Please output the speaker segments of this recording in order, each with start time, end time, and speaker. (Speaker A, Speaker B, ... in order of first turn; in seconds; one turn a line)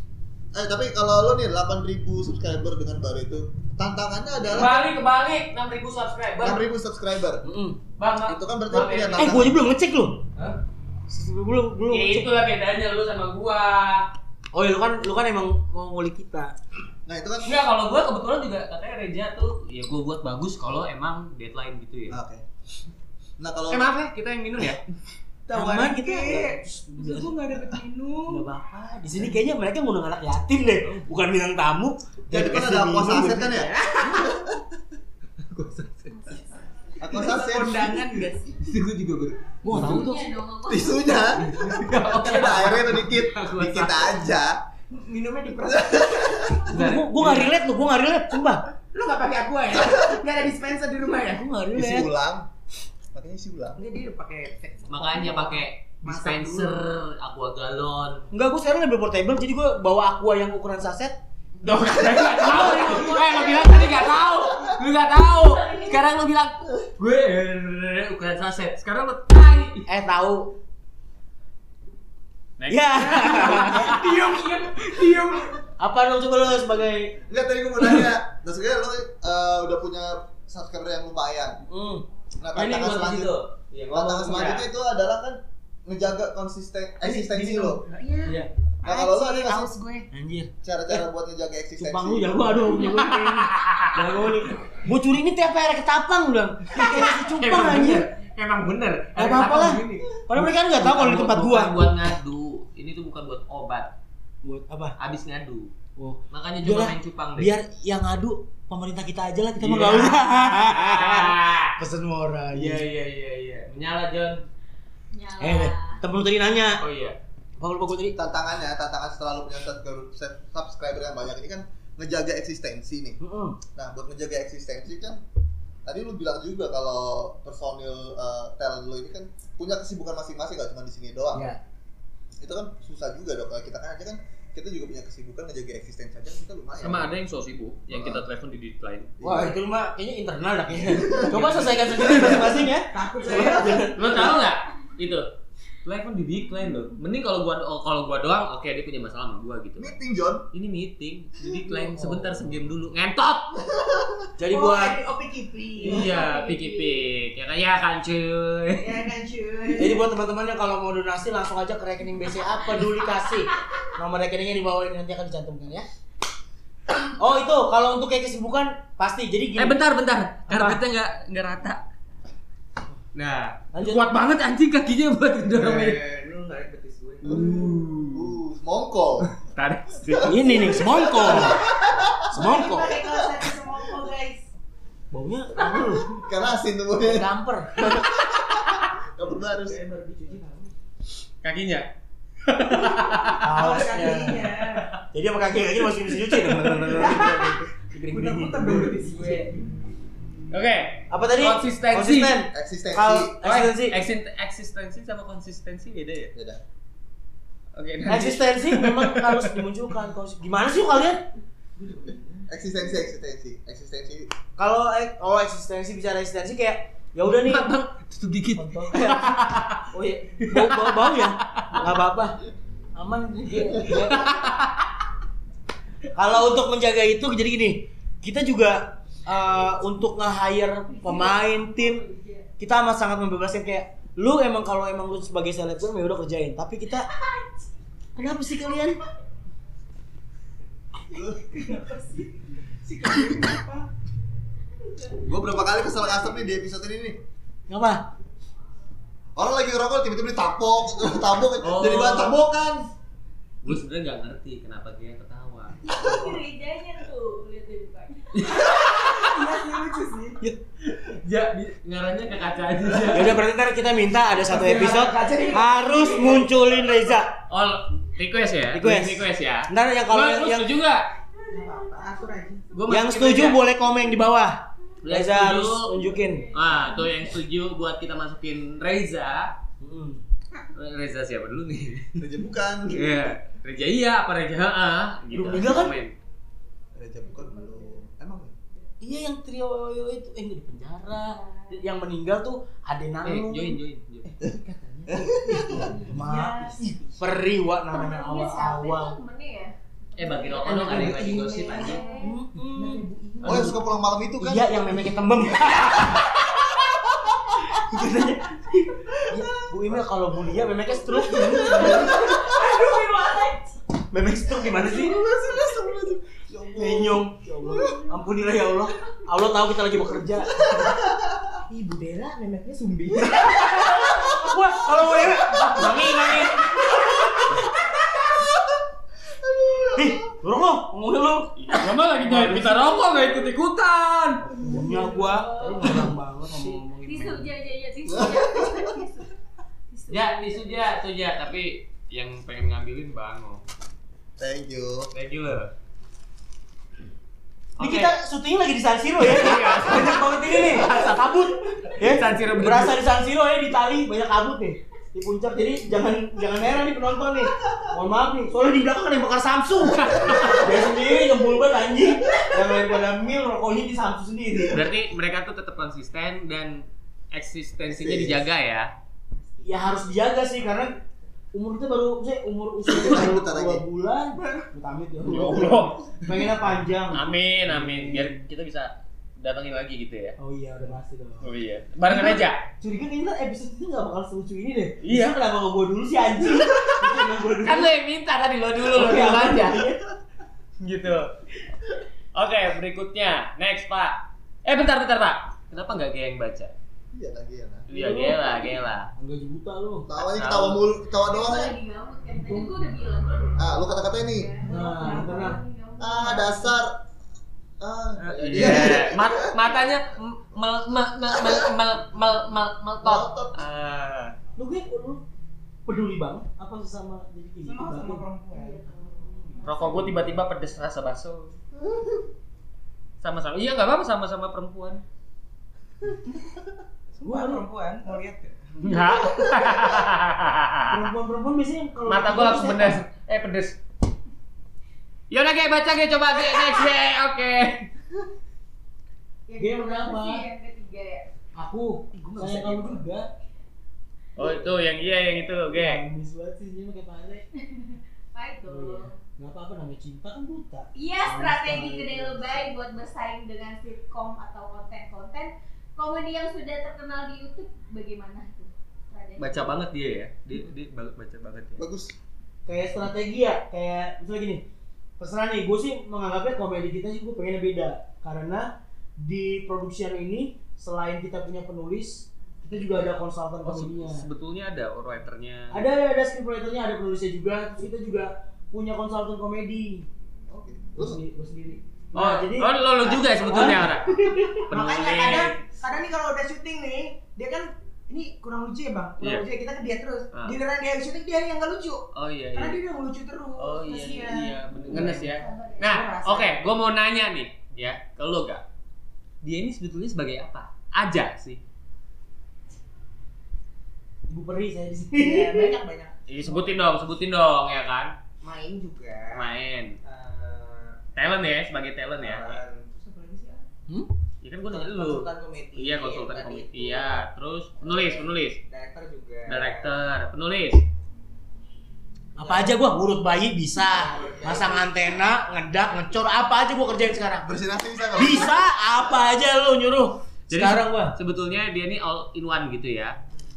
Speaker A: 0.5-4.8
Speaker B: 4.5-6.6
Speaker A: 6.4-7.4
Speaker C: 7.4-7.8
Speaker B: 8.0-9.5
Speaker A: 8.2-9.6
Speaker C: 9.2-10.2
Speaker C: 11.1-12.3
Speaker B: 11.9-14.1
Speaker C: 14.5-16.5
Speaker A: 17.1-17.6
Speaker B: 17.4-22.2
Speaker A: 22.1-22.4
Speaker A: 23.4-23.9
Speaker B: 23.7-24.8
Speaker D: 25.5-28.4
Speaker C: 25.5-27.3
Speaker C: 28.3-33.5
Speaker A: 32.3-34.4
Speaker D: 33.0-34.5
Speaker D: 35.6-35.8
Speaker B: 35.6-36.0
Speaker A: 37.0-38.0
Speaker D: 37.1-38.5
Speaker B: 38.6-40.0
Speaker C: 39.6-40.3
Speaker E: 39.7-41.2
Speaker A: 40.6-44.6
Speaker B: 41.3-44.3
Speaker D: 44.9-46.6
Speaker A: 45.7-46.6
Speaker B: 46.7-47.6
Speaker C: 46.7-48.6
Speaker D: 48.9-51.5
Speaker C: 51.3-52.1
Speaker A: 51.7-52.5
Speaker A: 53.1-53.8
Speaker D: 53.8-56.9
Speaker B: 54.9-58.3
Speaker C: 58.3-61.2
Speaker B: 61.6-69.9
Speaker A: 62.2-62.5
Speaker C: 62.6-63.2
Speaker A: 63.4-63.8
Speaker E: 65.6-65.9
Speaker C: 69.9-70.5
Speaker B: 72.6-74.3
Speaker C: 72.7-74.0
Speaker D: 73.4-75.6
Speaker C: 75.8-77.2
Speaker A: 77.3-81.6
Speaker C: 81.7-82.0
Speaker A: 82.4-83.3
Speaker B: 82.5-84.7
Speaker A: 83.9-87.8
Speaker D: 87.0-90.1
Speaker C: 88.2-88.5
Speaker A: 88.8-89.7
Speaker C: 90.1-91.0
Speaker A: 90.6-92.5
Speaker C: 91.8-98.0
Speaker B: 92.9-94.0
Speaker B: 97.0-103.9
Speaker C: 99.2-101.8
Speaker C: 104.4-105.0
Speaker B: 105.0-105.7
Speaker C: 106.0-112.8
Speaker B: 106.3-107.5
Speaker B: 109.6-111.8
Speaker B: 112.5-114.4
Speaker E: 115.1-116.0
Speaker C: 115.4-116.8
Speaker B: 116.8-117.2
Speaker C: 117.6-118.2
Speaker A: 118.2-123.2
Speaker C: 123.2-123.6
Speaker A: 123.7-125.2
Speaker A: 125.8-131.5
Speaker C: 131.3-131.6
Speaker A: 132.4-137.1
Speaker B: 136.8-139.1
Speaker A: 137.9-138.2
Speaker A: 139.2-139.6
Speaker C: 139.2-144.4
Speaker A: 140.8-142.5
Speaker B: 141.3-141.9
Speaker D: 142.9-143.9
Speaker B: 143.9-145.3
Speaker B: 145.8-149.9
Speaker A: 149.8-150.4
Speaker B: 150.5-153.6
Speaker C: 151.9-152.3
Speaker A: 153.8-154.1
Speaker C: 154.4-155.0
Speaker D: 154.5-156.2
Speaker B: 155.8-158.9
Speaker E: 155.9-157.0
Speaker D: 158.8-160.1
Speaker C: 159.8-165.9
Speaker C: 167.2-169.8
Speaker B: 169.6-171.8
Speaker C: 170.5-170.8
Speaker B: 173.1-176.0
Speaker C: 173.7-174.1
Speaker D: 175.5-177.4
Speaker A: 177.2-179.3
Speaker B: 177.2-178.4
Speaker B: 179.4-180.6
Speaker A: 180.1-183.1
Speaker C: 180.2-181.6
Speaker C: 182.3-183.0
Speaker D: 182.3-184.5
Speaker C: 185.1-186.1
Speaker A: 185.8-187.3
Speaker C: 187.0-188.1
Speaker A: 187.9-189.8
Speaker D: 189.6-190.7
Speaker B: 191.4-191.9
Speaker B: 192.4-193.6
Speaker D: 193.0-194.8
Speaker C: 193.4-194.5
Speaker C: 195.1-198.9
Speaker B: 196.2-196.9
Speaker D: 196.9-197.5
Speaker D: 198.1-199.7
Speaker B: 200.5-202.4
Speaker C: 201.1-204.0
Speaker A: 202.5-203.3
Speaker B: 203.4-206.3
Speaker A: 206.3-206.6
Speaker B: 207.7-209.6
Speaker C: 208.1-211.3
Speaker D: 211.8-212.4
Speaker A: 212.5-214.3
Speaker C: 214.6-217.7
Speaker B: 217.2-219.9
Speaker C: 218.5-222.4
Speaker B: 220.4-221.8
Speaker C: 222.9-224.5
Speaker B: 223.8-224.8
Speaker C: 226.1-232.0
Speaker E: 230.9-232.5
Speaker C: 232.6-237.1
Speaker E: 237.0-237.7
Speaker C: 238.2-239.0
Speaker D: 241.1-243.9
Speaker A: 245.2-247.2
Speaker E: 245.9-246.3
Speaker C: 247.7-248.1
Speaker A: 249.3-252.9
Speaker B: 251.6-252.4
Speaker B: 253.6-255.9
Speaker E: 255.8-258.8
Speaker B: 258.3-259.2
Speaker D: 259.1-260.4
Speaker B: 260.8-263.4
Speaker C: 263.1-267.4
Speaker D: 264.4-266.5
Speaker B: 267.5-271.1
Speaker C: 268.7-270.7
Speaker D: 271.5-272.7
Speaker B: 272.7-273.6
Speaker C: 272.9-276.5
Speaker B: 275.0-275.9
Speaker E: 276.0-277.3
Speaker B: 276.5-279.5
Speaker C: 279.8-280.2
Speaker B: 280.7-282.1
Speaker A: 282.2-283.1
Speaker B: 282.9-286.1
Speaker C: 285.3-285.9
Speaker A: 286.9-288.6
Speaker E: 287.3-287.9
Speaker C: 289.0-293.8
Speaker E: 291.2-291.8
Speaker B: 293.2-294.3
Speaker D: 294.4-297.2
Speaker A: 295.1-295.9
Speaker E: 295.7-296.3
Speaker C: 296.1-299.2
Speaker E: 297.9-302.3
Speaker B: 300.1-302.0
Speaker D: 300.5-303.8
Speaker C: 302.2-303.8
Speaker A: 303.4-304.8
Speaker C: 304.4-306.6
Speaker A: 305.8-306.1
Speaker C: 307.6-312.2
Speaker A: 311.4-312.4
Speaker D: 311.5-313.7
Speaker E: 311.9-313.0
Speaker C: 314.1-315.2
Speaker A: 314.7-317.3
Speaker C: 316.7-320.7
Speaker A: 320.6-321.2
Speaker D: 321.7-324.0
Speaker C: 323.2-328.2
Speaker B: 325.5-326.7
Speaker A: 329.4-330.2
Speaker C: 329.9-332.9
Speaker B: 331.6-334.4
Speaker C: 334.4-337.5
Speaker D: 334.7-335.5
Speaker E: 334.8-336.0
Speaker E: 337.0-339.3
Speaker A: 338.1-338.9
Speaker E: 339.9-340.9
Speaker B: 340.1-343.6
Speaker A: 344.4-345.1
Speaker B: 345.1-345.7
Speaker B: 347.8-348.1
Speaker C: 347.8-364.9
Speaker B: 349.2-353.0
Speaker B: 359.9-360.8
Speaker B: 364.7-368.9
Speaker A: 367.9-368.4
Speaker C: 369.6-371.0
Speaker C: 371.5-378.3
Speaker A: 372.9-373.8
Speaker D: 374.4-374.7
Speaker B: 375.2-376.1
Speaker B: 377.1-380.4
Speaker C: 380.4-381.4
Speaker B: 381.4-382.6
Speaker C: 382.1-387.9
Speaker B: 385.0-385.4
Speaker B: 387.6-389.9
Speaker C: 388.9-390.0
Speaker B: 390.8-391.3
Speaker B: 392.3-396.7
Speaker A: 397.1-397.9
Speaker B: 397.9-399.1
Speaker C: 397.9-398.4
Speaker C: 399.1-400.1
Speaker A: 400.1-401.8
Speaker B: 400.2-400.8
Speaker E: 401.2-406.8
Speaker C: 402.3-402.7
Speaker A: 403.6-404.5
Speaker C: 404.6-405.6
Speaker D: 404.7-405.5
Speaker A: 406.0-407.0
Speaker A: 407.8-409.9
Speaker B: 408.2-414.4
Speaker A: 413.0-413.6
Speaker C: 414.6-415.2
Speaker C: 415.9-418.2
Speaker D: 417.6-419.8
Speaker E: 418.5-420.2
Speaker B: 419.6-421.5
Speaker B: 423.2-425.0
Speaker D: 427.1-428.8
Speaker C: 427.2-427.6
Speaker B: 428.8-430.9
Speaker C: 430.9-433.0
Speaker B: 432.1-433.8
Speaker B: 435.3-437.9
Speaker E: 439.5-441.3
Speaker C: 439.6-440.4
Speaker C: 441.6-443.3
Speaker D: 442.2-443.0
Speaker B: 444.4-446.0
Speaker C: 445.7-447.4
Speaker E: 447.6-449.1
Speaker C: 448.6-452.7
Speaker E: 450.9-459.7
Speaker B: 459.4-461.8
Speaker A: 461.8-462.1
Speaker C: 462.6-464.6
Speaker C: 465.2-474.2
Speaker B: 473.6-475.8
Speaker C: 475.7-480.1
Speaker A: 480.5-481.2
Speaker C: 480.9-484.7
Speaker B: 482.1-485.6
Speaker D: 484.7-496.6
Speaker B: 492.1-492.8
Speaker B: 493.6-498.6
Speaker E: 494.9-496.0
Speaker B: 499.4-501.6
Speaker C: 504.3-505.8
Speaker D: 505.1-506.8
Speaker B: 506.3-508.1
Speaker D: 508.4-509.5
Speaker B: 509.3-509.9
Speaker D: 510.0-511.0
Speaker B: 511.1-512.6
Speaker D: 512.2-513.7
Speaker B: 514.4-518.6
Speaker D: 514.7-517.1
Speaker D: 517.8-520.0
Speaker B: 519.5-520.8
Speaker C: 522.4-527.5
Speaker D: 522.4-522.7
Speaker D: 523.9-524.9
Speaker A: 527.4-528.6
Speaker C: 528.1-531.1
Speaker B: 530.5-533.2